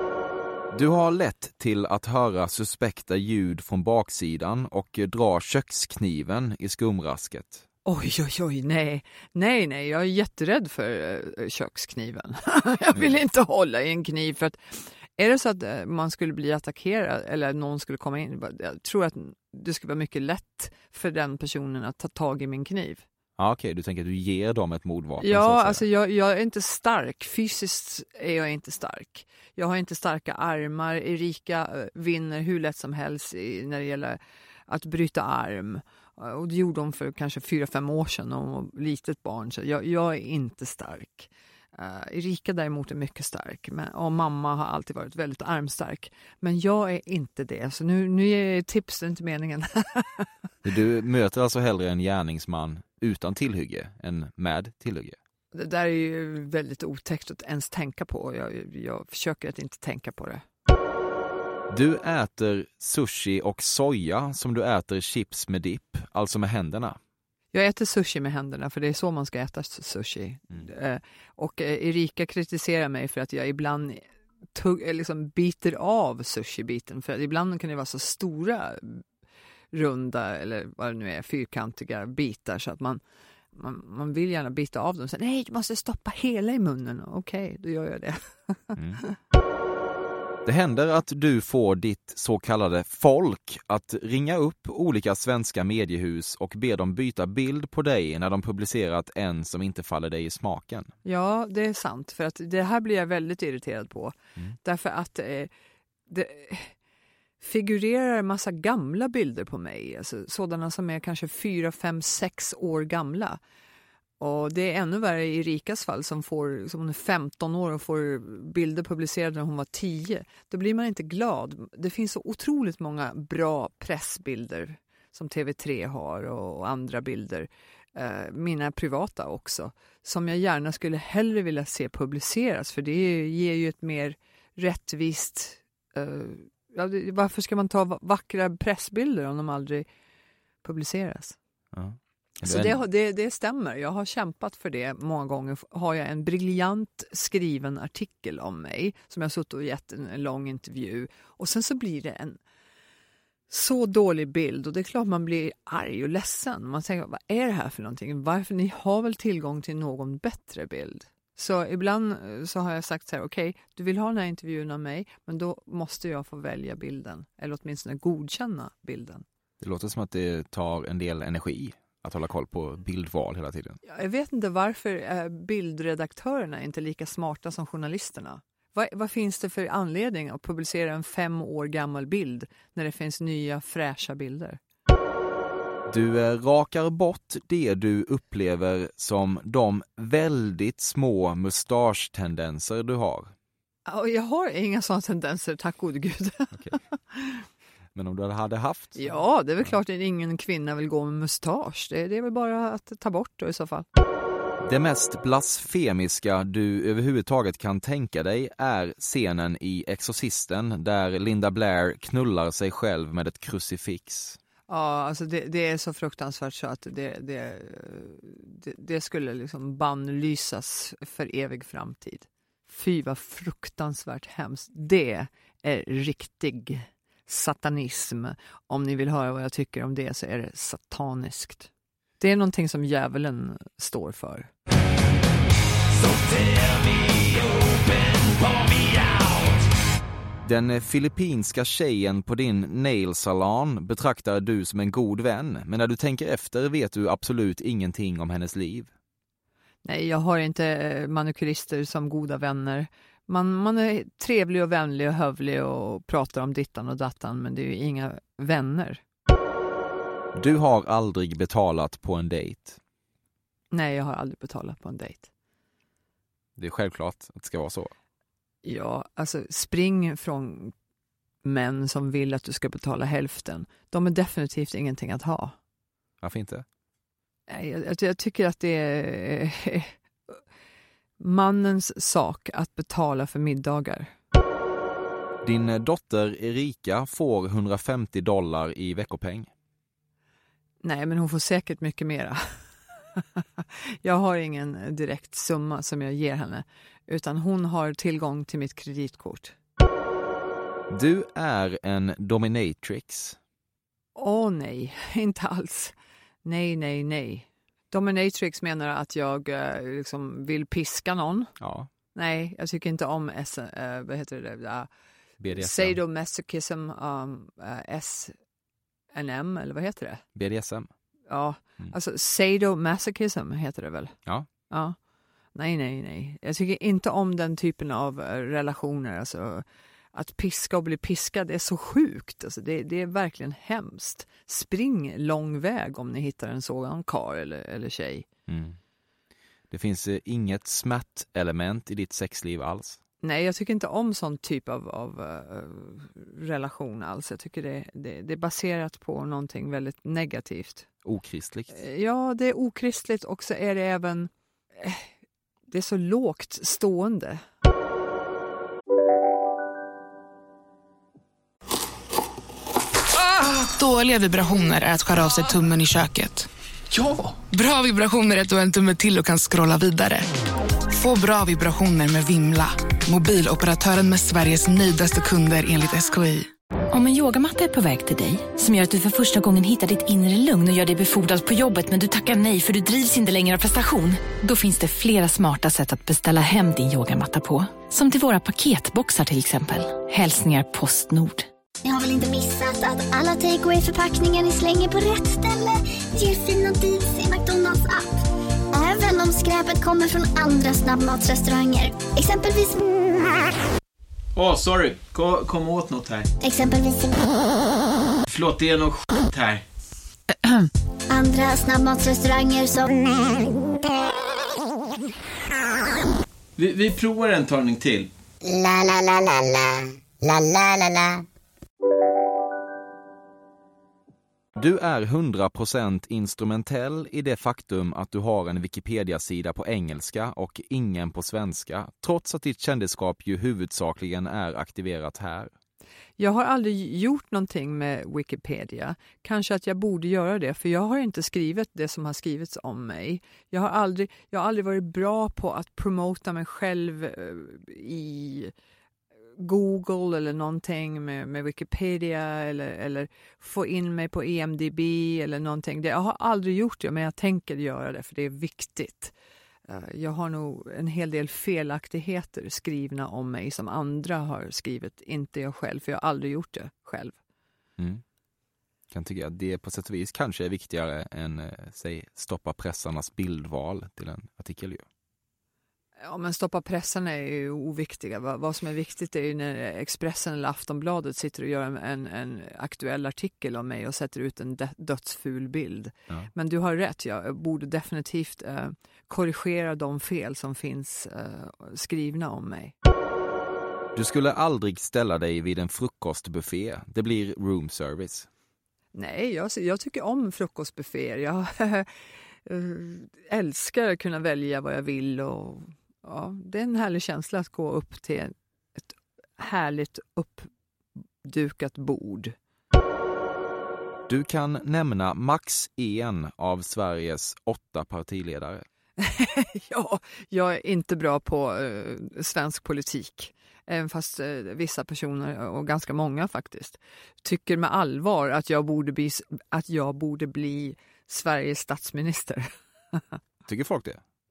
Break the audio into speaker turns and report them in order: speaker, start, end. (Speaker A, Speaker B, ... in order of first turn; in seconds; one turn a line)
Speaker A: 0.7-7.6
Speaker B: 7.8-23.0
Speaker A: 23.4-25.8
Speaker B: 25.2-50.3
Speaker A: 50.6-55.1
Speaker B: 55.5-60.4
Speaker A: 61.7-67.0
Speaker B: 67.5-79.0
Speaker B: 79.7-83.0
Speaker B: 83.5-89.1
Speaker A: 88.8-89.0
Speaker A: 90.4-100.9
Speaker B: 101.0-105.5
Speaker B: 106.1-106.7
Speaker B: 107.4-113.4
Speaker B: 114.2-139.8
Speaker B: 140.6-141.3
Speaker A: 141.7-142.8
Speaker B: 142.4-152.4
Speaker B: 153.5-169.2
Speaker A: 169.6-173.8
Speaker B: 173.8-184.6
Speaker A: 185.9-193.3
Speaker B: 193.9-197.4
Speaker A: 197.9-199.0
Speaker B: 198.9-203.8
Speaker A: 204.6-214.4
Speaker B: 214.7-234.5
Speaker A: 236.2-237.4
Speaker A: 240.4-248.9
Speaker B: 249.8-259.0
Speaker A: 260.3-262.8
Speaker B: 263.7-265.3
Speaker A: 266.6-267.9
Speaker B: 268.6-270.7
Speaker B: 271.4-275.5
Speaker A: 276.2-276.6
Speaker B: 277.5-280.3
Speaker B: 281.2-284.1
Speaker A: 285.4-289.5
Speaker B: 290.8-292.4
Speaker B: 293.1-299.5
Speaker A: 300.9-303.4
Speaker B: 304.1-305.9
Speaker B: 306.4-311.5
Speaker A: 311.6-311.9
Speaker B: 312.1-314.9
Speaker A: 315.4-316.0
Speaker B: 315.5-318.3
Speaker B: 319.1-320.2
Speaker A: 320.4-320.9
Speaker B: 321.3-324.1
Speaker B: 324.7-324.9
Speaker B: 325.5-338.2
Speaker A: 338.5-338.8
Speaker A: 339.7-343.0
Speaker B: 343.2-350.9
Speaker A: 351.0-351.7
Speaker B: 351.7-355.1
Speaker B: 355.7-357.4
Speaker C: 363.2-366.5
Speaker D: 366.9-367.3
Speaker C: 367.4-370.3
Speaker C: 370.9-376.5
Speaker E: 376.9-391.5
Speaker F: 391.8-398.2
Speaker F: 398.7-402.8
Speaker D: 404.3-406.3
Speaker F: 406.4-407.3
Speaker D: 408.3-409.6
Speaker E: 410.4-410.7
Speaker F: 411.1-413.4
Speaker D: 416.6-418.1
Speaker A: 424.6-435.5
Speaker B: 436.2-448.5
Speaker B: 449.4-459.1
Speaker B: 459.7-467.1
Speaker A: 467.8-468.0
Speaker A: 468.9-474.8
Speaker B: 476.0-492.7
Speaker A: 493.9-498.3
Speaker B: 498.9-501.9
Speaker B: 502.4-510.5
Speaker B: 511.2-512.3
Speaker A: 514.1-518.6
Speaker B: 519.0-533.0
Speaker A: 533.5-534.0